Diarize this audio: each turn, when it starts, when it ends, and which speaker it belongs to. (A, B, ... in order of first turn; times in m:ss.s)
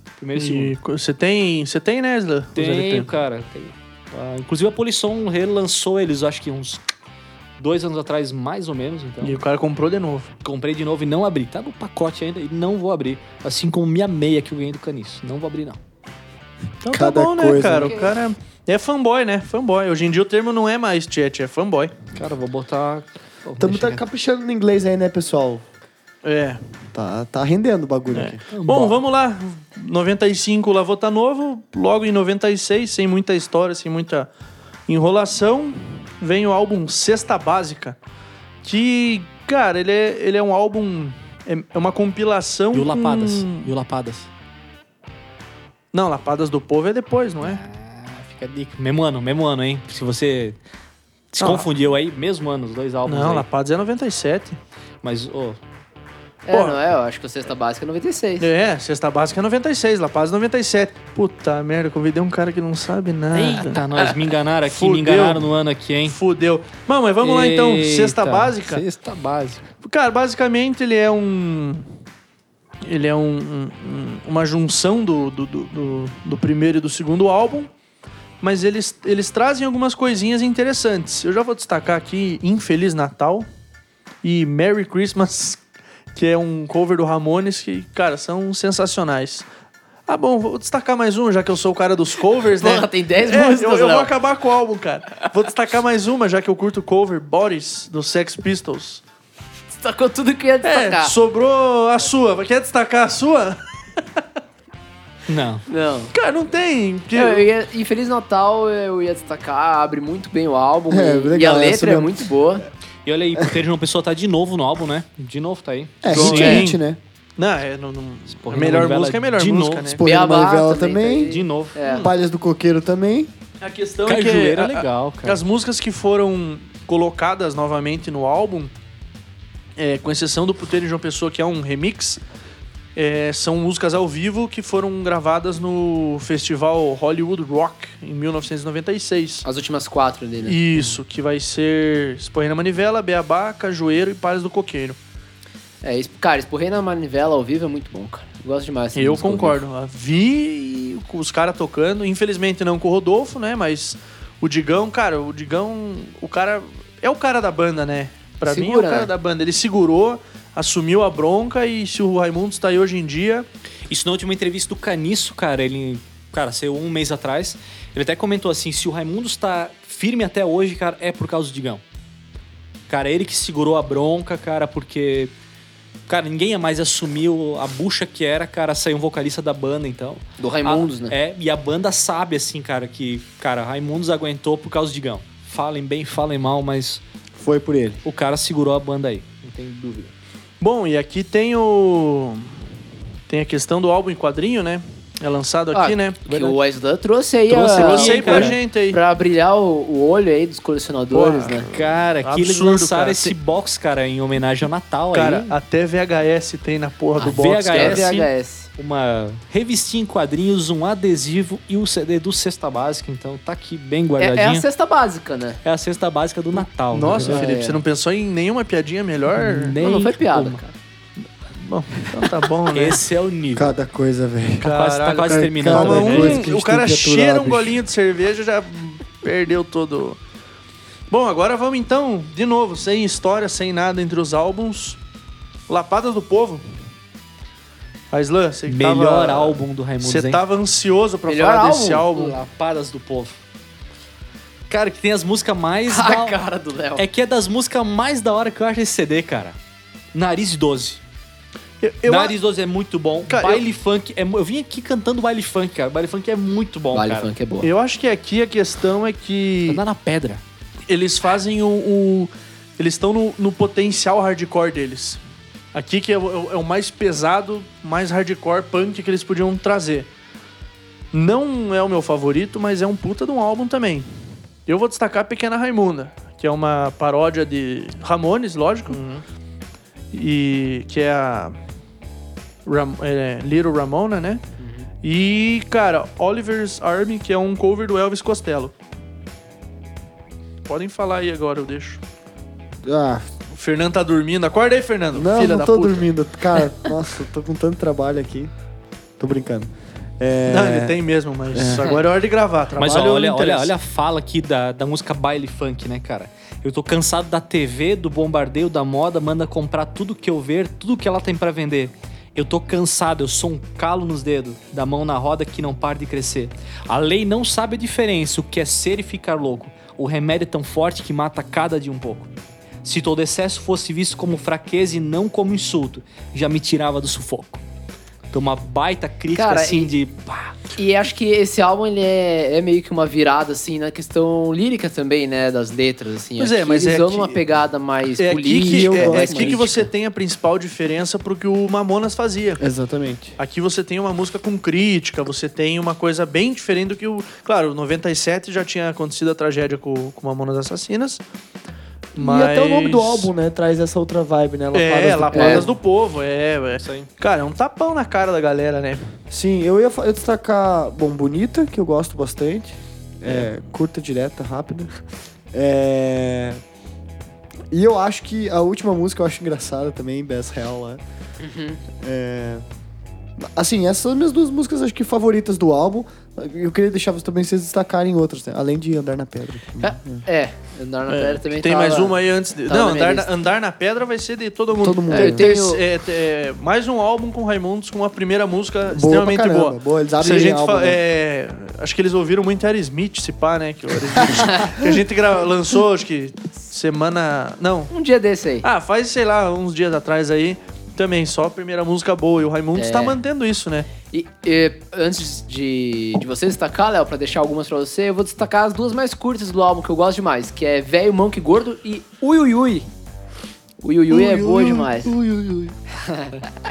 0:00.2-0:00.8 A
0:00.4-0:03.1 B
0:02.6-0:06.8 A
0:07.6-0:09.4 A
0:09.2-0:10.3 B
0:10.4-0:15.8 A
0:16.8-0:21.9 B
0:16.9-0:18.1 C
0:22.2-0:24.0 A
0:23.6-0:25.6 C
0:26.2-0:26.6 B
0:26.9-0:28.4 C
0:28.1-0:34.3 B
0:28.5-0:29.0 A
0:34.9-0:38.0 B
0:38.6-0:43.7 B
0:42.7-0:44.3 A
0:45.9-0:47.6 B
0:47.4-0:50.6 A
0:51.3-0:53.4 A
0:51.4-0:51.7 B
0:53.1-0:54.6 B
0:55.0-0:55.6 A
0:56.4-0:58.5 D
0:56.5-0:56.8 B
0:58.4-1:03.8 B
1:03.3-1:06.2 A
1:04.6-1:05.5 B
1:06.0-1:08.8 B
1:07.2-1:09.7 A
1:09.8-1:11.9 B
1:12.8-1:17.7 B
1:18.4-1:23.5 B
1:24.2-1:25.6 B
1:26.1-1:29.5 B
1:30.1-1:39.0 B
1:32.6-1:34.1 D
1:39.7-1:41.1 D
1:40.6-1:43.6 B
1:45.3-1:45.7 A
1:45.7-1:46.1 D
1:46.1-1:47.5 B
1:47.1-1:52.7 D
1:50.9-1:52.3 C
1:53.0-1:56.7 A
1:56.0-1:57.0 C
1:56.1-1:56.8 B
1:56.1-1:56.7 D
1:57.4-2:00.0 B
1:58.3-2:00.0 A
2:00.0-2:01.4 C
2:00.0-2:02.1 D
2:01.3-2:01.8 A
2:01.8-2:02.1 B
2:02.0-2:03.3 C
2:03.6-2:08.7 B
2:04.1-2:05.4 A
2:09.8-2:12.2 B
2:13.0-2:19.4 B
2:19.4-2:21.0 D
2:20.4-2:25.0 B
2:25.8-2:29.6 D
2:28.9-2:43.5 B
2:38.5-2:39.1 D
2:43.9-2:51.8 A
2:52.9-2:55.3 A
2:56.1-3:07.0 A
3:00.4-3:01.2 D
3:07.4-3:08.0 C
3:08.0-3:10.1 A
3:10.6-3:12.6 B
3:13.3-3:16.3 B
3:15.7-3:21.7 D
3:16.3-3:16.6 A
3:17.5-3:18.6 A
3:17.8-3:19.0 B
3:21.1-3:23.4 B
3:21.7-3:25.5 A
3:25.1-3:28.1 B
3:27.2-3:34.6 A
3:27.2-3:28.7 D
3:34.2-3:35.6 D
3:35.6-3:37.4 A
3:36.6-3:39.8 B
3:37.1-3:37.8 D
3:39.3-3:40.6 A
3:39.8-3:40.7 D
3:41.5-3:43.0 B
3:42.7-3:43.8 A
3:43.6-3:44.7 C
3:44.6-3:50.2 B
3:44.6-3:46.5 A
3:45.4-3:47.8 C
3:51.1-3:55.0 B
3:55.7-3:56.6 B
3:58.1-4:02.4 B
3:58.7-4:00.4 A
4:01.3-4:02.1 D
4:02.1-4:03.4 A
4:04.7-4:06.4 A
4:05.9-4:07.0 D
4:07.0-4:09.6 A
4:10.1-4:11.0 A
4:11.8-4:12.4 B
4:12.1-4:17.3 A
4:13.2-4:13.6 B
4:16.9-4:17.7 D
4:17.6-4:19.8 B
4:19.7-4:20.4 A
4:20.9-4:25.2 B
4:25.7-4:30.1 B
4:31.1-4:34.1 B
4:34.7-4:39.2 B
4:40.1-4:41.6 B
4:42.7-4:44.4 B
4:44.6-4:44.9 D
4:45.0-4:48.7 B
4:50.7-4:52.0 B
4:52.8-4:53.3 C
4:53.5-4:56.1 B
4:55.2-4:58.5 C
4:59.2-5:01.0 C
5:00.5-5:03.7 B
5:01.5-5:01.9 C
5:02.8-5:22.3 A
5:22.8-5:27.6 A
5:28.3-5:30.6 A
5:29.4-5:29.9 D
5:30.8-5:39.9 D
5:36.4-5:37.4 B
5:38.2-5:42.6 B
5:38.6-5:39.6 C
5:42.6-5:43.4 C
5:43.4-5:51.2 B
5:52.2-5:53.3 B
5:52.2-5:55.7 C
5:54.7-5:59.0 B
5:55.3-5:55.7 D
5:56.8-5:57.1 A
5:59.3-6:05.0 C
6:05.5-6:06.6 C
6:07.7-6:11.0 C
6:11.4-6:11.8 D
6:12.0-6:12.6 C
6:13.4-6:20.2 C
6:19.8-6:23.3 D
6:21.1-6:37.9 B
6:24.8-6:25.5 C
6:25.1-6:25.8 D
6:28.9-6:31.0 C
6:34.1-6:34.8 C
6:37.9-6:38.7 D
6:38.6-6:43.9 B
6:42.8-6:43.2 D
6:44.1-6:52.9 D
6:53.8-6:55.1 D
6:54.1-6:55.8 C
6:56.0-6:56.4 D